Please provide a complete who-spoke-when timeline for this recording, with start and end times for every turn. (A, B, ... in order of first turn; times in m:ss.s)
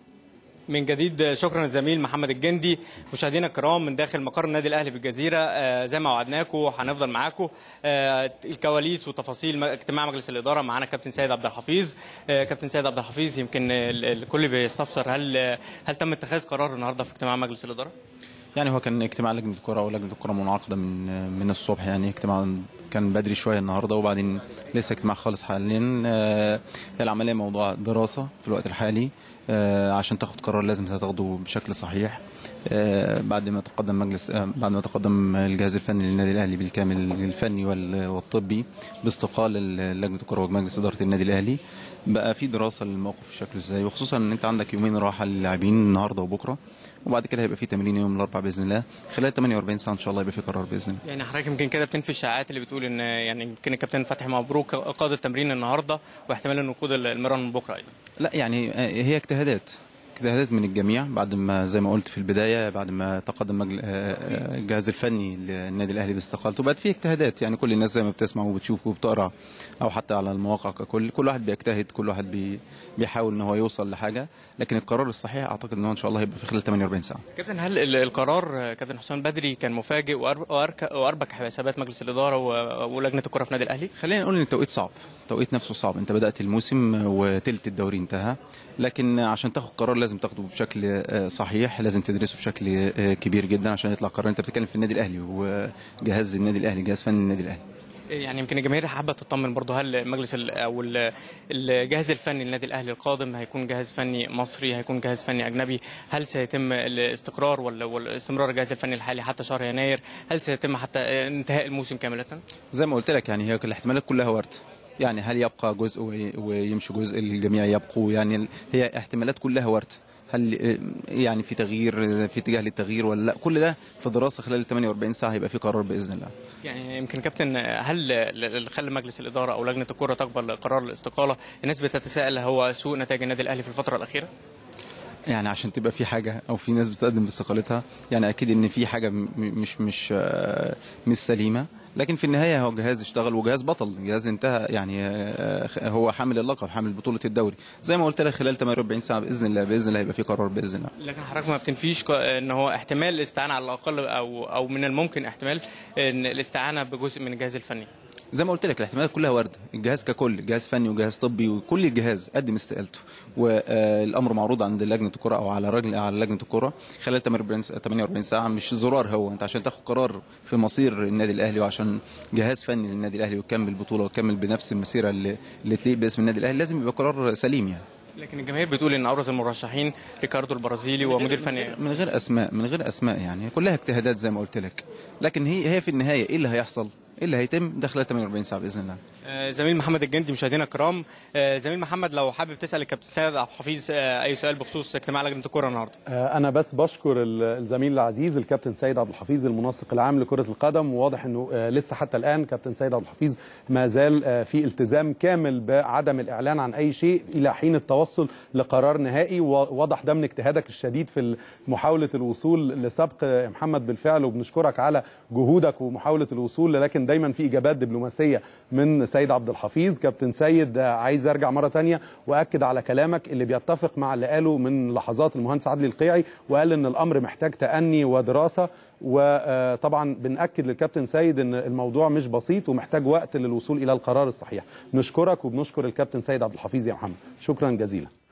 0:00.7-0:17.9 A
0:18.5-0:51.0 B
0:51.0-0:57.9 A
0:58.2-1:17.2 B
1:17.3-1:23.9 A
1:24.0-1:37.6 B
1:38.1-1:52.4 A
1:52.7-2:06.3 B
2:06.6-2:14.3 A
2:15.3-2:30.9 B
2:31.0-2:37.9 A
2:38.3-2:57.8 B
2:58.2-3:01.8 A
3:01.4-3:09.0 B
3:09.2-3:16.0 A
3:16.1-3:58.1 C